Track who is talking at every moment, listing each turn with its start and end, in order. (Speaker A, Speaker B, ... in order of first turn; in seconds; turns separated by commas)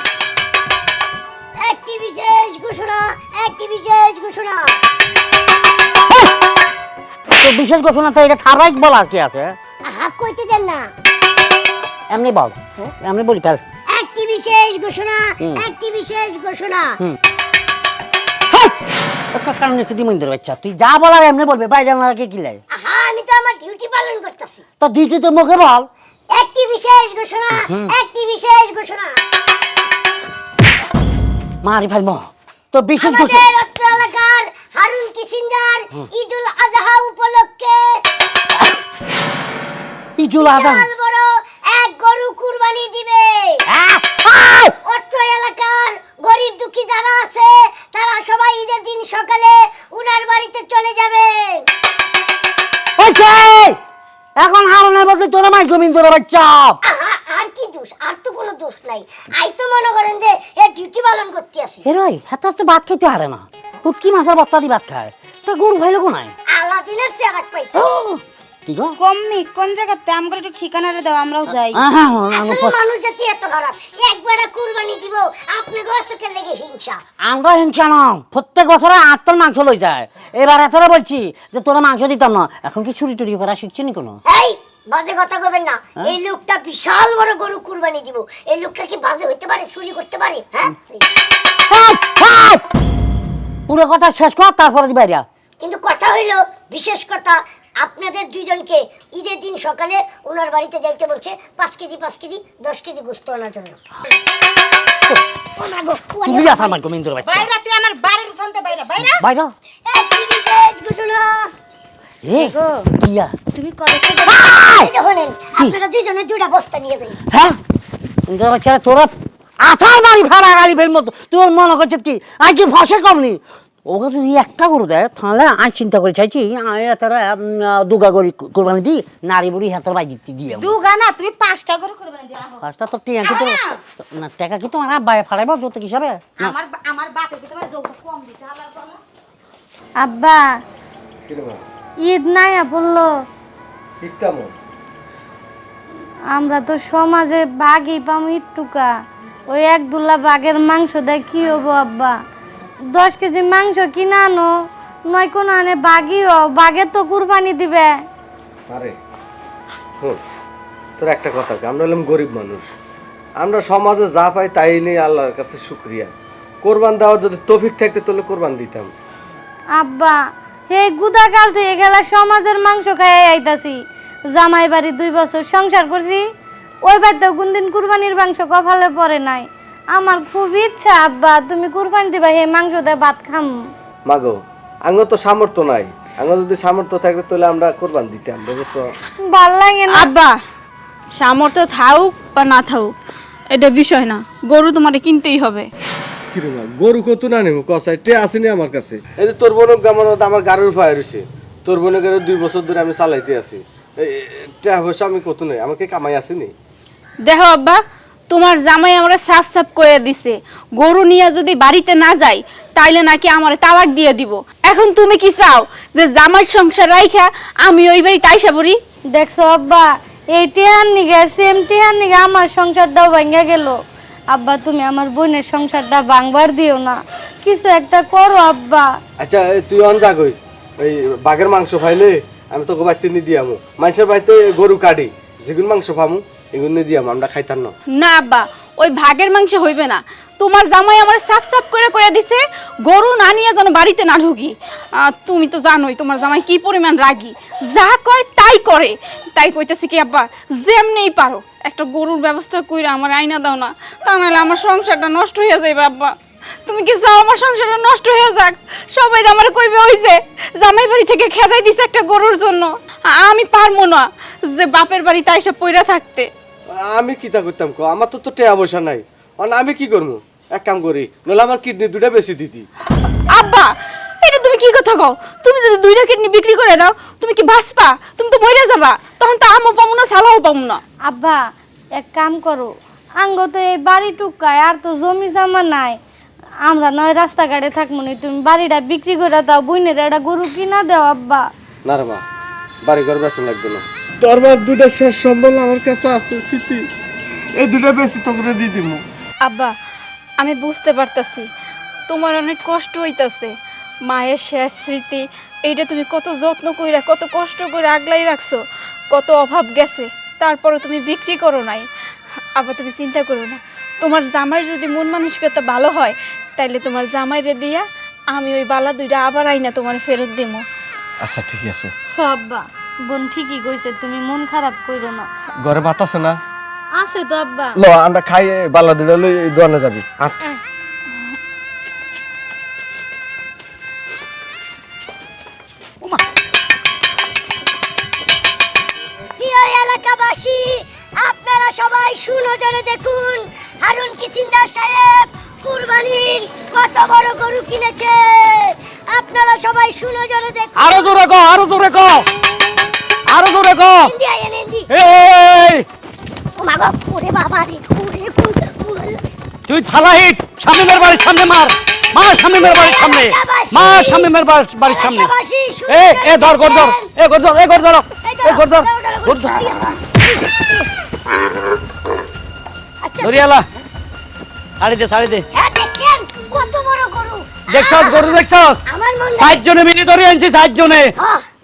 Speaker A: 1.6-4.8, Speaker B: 7.3-9.6, Speaker A: 9.9-10.9, Speaker B: 12.1-13.6, Speaker A: 13.9-17.0, Speaker B: 15.4-15.7, Speaker B: 19.3-22.6, Speaker A: 22.7-24.6, Speaker B: 24.8-25.9, Speaker A: 26.3-29.2, Speaker B: 27.6-27.9, Speaker B: 31.6-33.5, Speaker A: 33.0-38.0, Speaker B: 40.2-40.9, Speaker A: 40.4-43.6, Speaker B: 43.7-44.8, Speaker A: 44.8-51.7, Speaker B: 53.0-53.8, Speaker B: 54.4-56.8, Speaker A: 56.8-61.9, Speaker B: 61.8-66.3, Speaker A: 66.5-67.9, Speaker B: 67.8-68.9, Speaker C: 69.0-71.8, Speaker B: 71.5-72.8, Speaker A: 72.3-77.0, Speaker B: 77.2-84.2, Speaker A: 84.3-91.0, Speaker B: 91.7-92.6, Speaker B: 93.7-95.2, Speaker A: 95.6-103.8, Speaker A: 105.6-106.8, Speaker B: 106.2-107.5, Speaker C: 107.2-109.2, Speaker B: 109.2-109.5, Speaker A: 109.9-111.5, Speaker B: 112.2-113.3, Speaker C: 112.3-112.9, Speaker C: 113.5-114.4, Speaker B: 114.3-114.9, Speaker A: 114.3-117.2, Speaker B: 117.3-117.6, Speaker B: 118.3-130.8, Speaker C: 130.5-132.7, Speaker B: 132.6-136.6, Speaker C: 133.2-133.8, Speaker C: 136.4-139.0, Speaker D: 140.0-140.4, Speaker E: 141.3-141.6, Speaker D: 142.0-143.1, Speaker E: 144.0-144.5, Speaker D: 146.3-148.9, Speaker D: 149.5-152.2, Speaker D: 152.9-154.5, Speaker D: 155.1-157.9, Speaker E: 158.7-158.9, Speaker E: 161.0-162.7, Speaker E: 163.4-166.1, Speaker E: 166.6-168.9, Speaker D: 169.8-170.2, Speaker D: 170.7-173.8, Speaker D: 174.3-176.2, Speaker D: 176.9-183.5, Speaker E: 184.1-188.9, Speaker D: 189.3-190.1, Speaker F: 189.9-190.4, Speaker F: 191.2-192.9, Speaker F: 193.5-195.7, Speaker E: 196.3-206.5, Speaker F: 207.2-218.8, Speaker D: 219.2-223.8, Speaker D: 224.3-228.9, Speaker E: 229.2-237.7, Speaker F: 237.9-256.1, Speaker F: 256.7-266.3, Speaker E: 266.9-272.6, Speaker F: 273.3-280.8, Speaker D: 281.1-281.4, Speaker D: 282.0-286.0, Speaker D: 286.6-291.5, Speaker E: 291.9-292.2, Speaker E: 292.9-296.8, Speaker E: 297.6-299.0, Speaker F: 299.4-299.7, Speaker F: 300.4-301.5, Speaker F: 302.1-303.5, Speaker F: 304.1-311.9, Speaker F: 312.6-320.6, Speaker E: 321.2-321.9, Speaker D: 322.2-325.3, Speaker E: 325.6-326.4, Speaker D: 327.0-327.8, Speaker E: 327.8-330.4, Speaker A: 339.4-351.1, Speaker G: 350.8-352.3, Speaker G: 353.3-354.1, Speaker A: 354.0-354.9, Speaker G: 354.9-355.9, Speaker A: 356.6-359.2, Speaker G: 359.7-365.3, Speaker A: 362.5-364.3, Speaker A: 364.8-367.1, Speaker G: 365.9-369.7, Speaker A: 368.2-370.9, Speaker A: 373.0-373.4, Speaker G: 373.2-373.7, Speaker G: 374.8-375.5, Speaker A: 375.5-379.6, Speaker G: 377.7-378.8, Speaker G: 379.4-381.1, Speaker A: 381.2-381.4